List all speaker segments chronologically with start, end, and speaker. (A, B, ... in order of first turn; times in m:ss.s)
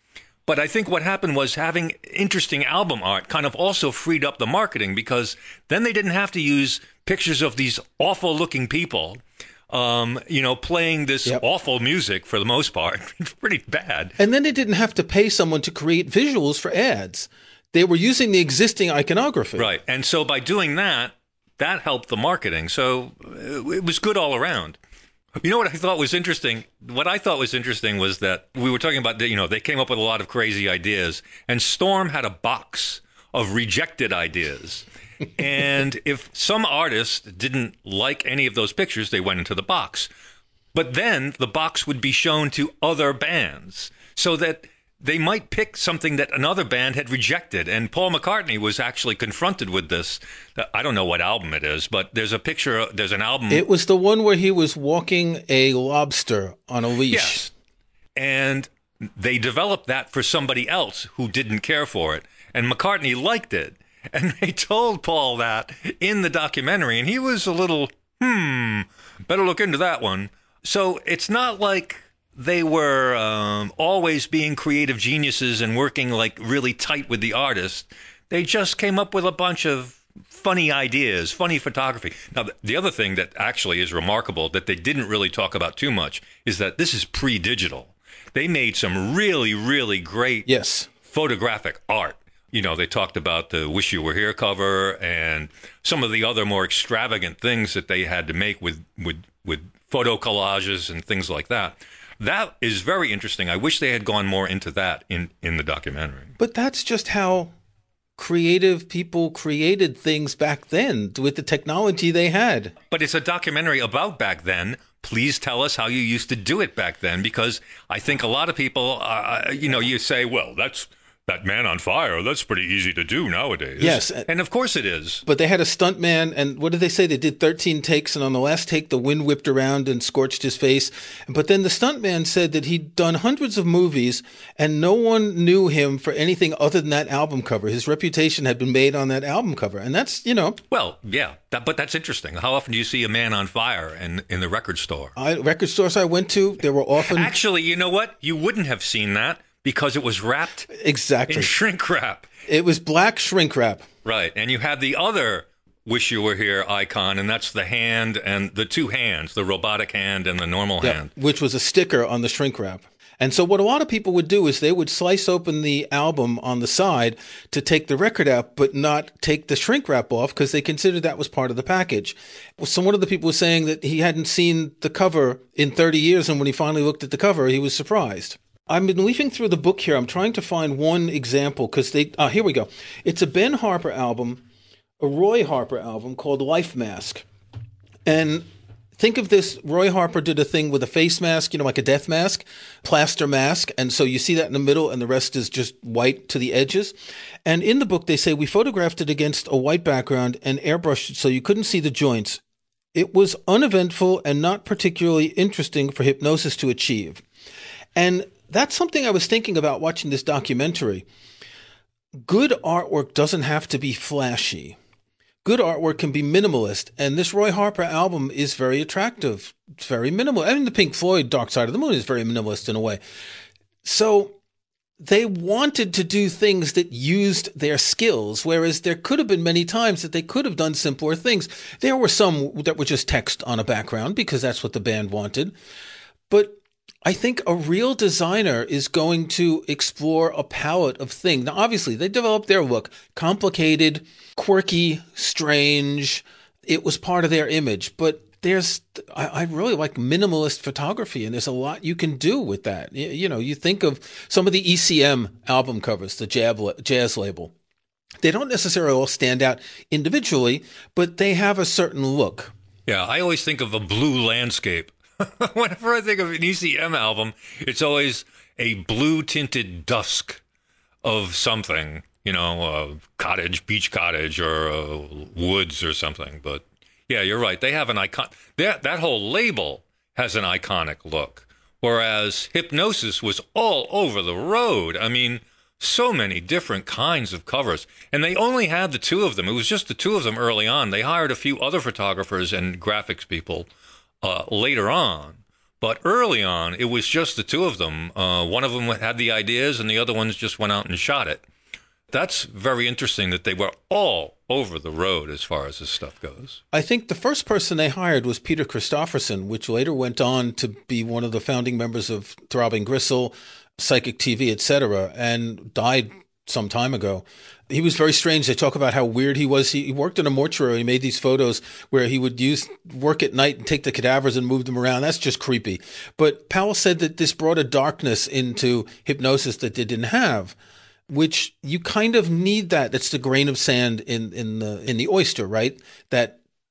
0:00.5-0:14.2 A
0:14.2-0:19.7 B
0:19.6-0:24.8 A
0:25.4-0:40.1 A
0:40.7-0:53.6 A
0:53.5-0:57.5 B
0:57.1-0:57.5 A
0:58.2-1:30.5 A
1:30.5-1:30.9 B
1:31.0-1:46.3 A
1:46.4-1:47.5 B
1:48.2-1:52.8 B
1:52.9-2:05.2 A
2:03.8-2:04.3 B
2:05.3-2:20.6 B
2:20.7-2:25.2 A
2:25.2-2:27.3 B
2:27.0-2:30.7 A
2:30.7-2:31.5 B
2:31.3-2:32.3 A
2:32.5-2:33.9 B
2:34.0-2:41.1 A
2:40.8-3:04.4 B
3:05.0-3:07.2 B
3:08.1-3:08.5 B
3:09.0-3:22.4 B
3:22.9-3:27.2 B
3:28.0-3:31.1 B
3:32.2-3:34.8 B
3:35.4-3:43.0 B
3:43.8-3:44.4 B
3:45.0-3:55.6 B
3:56.3-4:17.5 B
4:18.2-4:22.5 B
4:22.9-4:30.4 A
4:31.0-4:53.7 A
4:54.2-5:01.4 A
5:02.1-5:06.6 A
5:06.7-5:30.6 B
5:31.1-5:36.4 B